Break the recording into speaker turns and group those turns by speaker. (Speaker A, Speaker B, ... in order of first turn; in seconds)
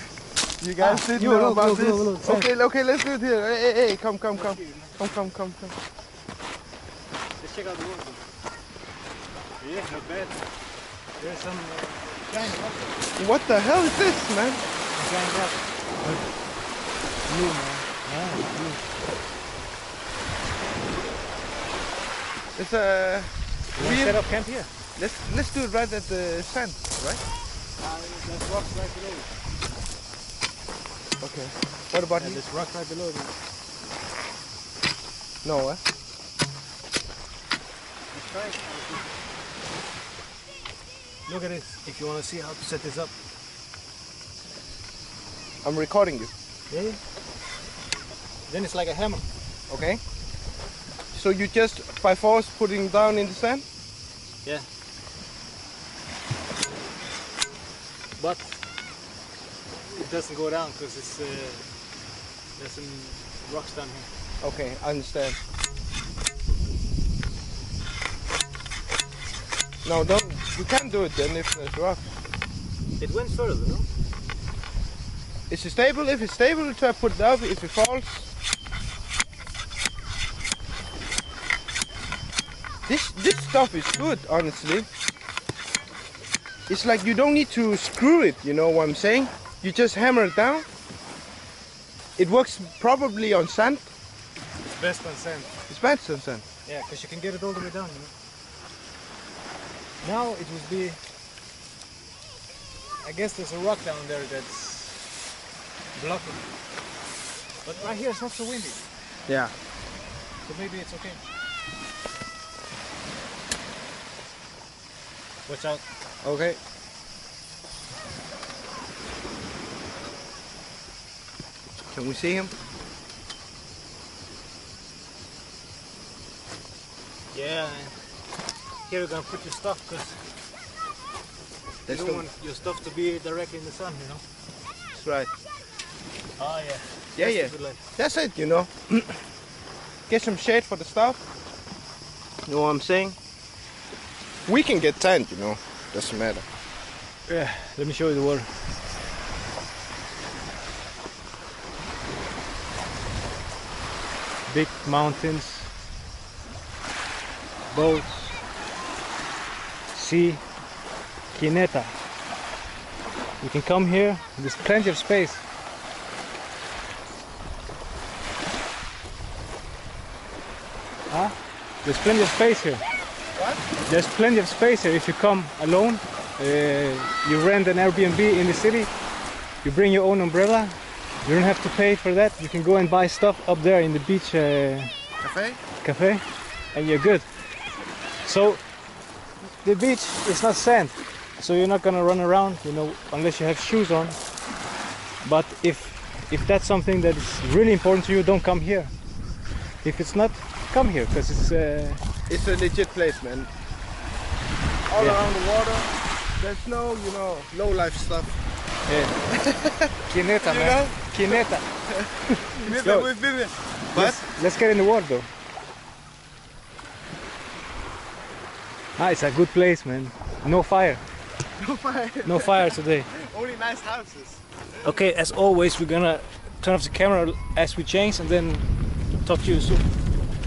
Speaker A: 0.6-5.8, 13.2-14.6, 22.6-24.2, 25.0-27.2, 31.2-32.4, 35.4-35.8, 45.6-46.3, 49.7-50.0, 51.1-53.6, 64.4-65.4, 69.8-72.2, 75.5-78.3, 82.9-84.9, 86.7-90.7, 92.2-93.9, 95.7-96.5, 109.3-109.5, 116.2-116.6, 121.9-122.5, 131.9-132.3, 134.9-135.3, 137.2-139.3, 140.1-141.2, 142.5-143.2, 144.5-146.5, 173.3-173.7, 185.2-185.6, 202.3-203.5, 204.9-208.4, 209.3-214.2, 221.6-224.4
Speaker B: 0.8-2.5, 4.3-4.9, 7.4-8.2, 9.6-10.4, 11.2-13.0, 14.9-16.3, 17.3-18.8, 23.8-24.7, 27.8-29.3, 32.2-33.4, 38.1-39.1, 41.3-43.1, 46.7-47.0, 48.5-49.2, 58.2-58.6, 59.9-61.7, 62.6-64.1, 73.0-73.9, 94.8-95.5, 96.7-98.1, 100.0-101.0, 103.0-105.1, 106.0-106.5, 107.7-108.8, 110.5-111.2, 115.5-115.8, 127.3-128.0, 128.8-130.3, 131.9-134.2, 136.4-137.8, 147.3-148.6, 154.5-155.7, 157.7-158.4, 159.9-160.4, 161.3-161.9, 163.4-165.4, 171.1-172.8, 173.9-178.9, 179.6-184.9, 185.8-187.3, 188.2-188.6, 189.6-194.2, 195.2-198.9, 199.8-202.0, 205.0-205.2, 208.9-209.2, 210.1-211.7, 212.3-213.1, 213.9-215.3, 219.0-221.0, 222.2-223.1, 224.8-228.7, 229.2-229.9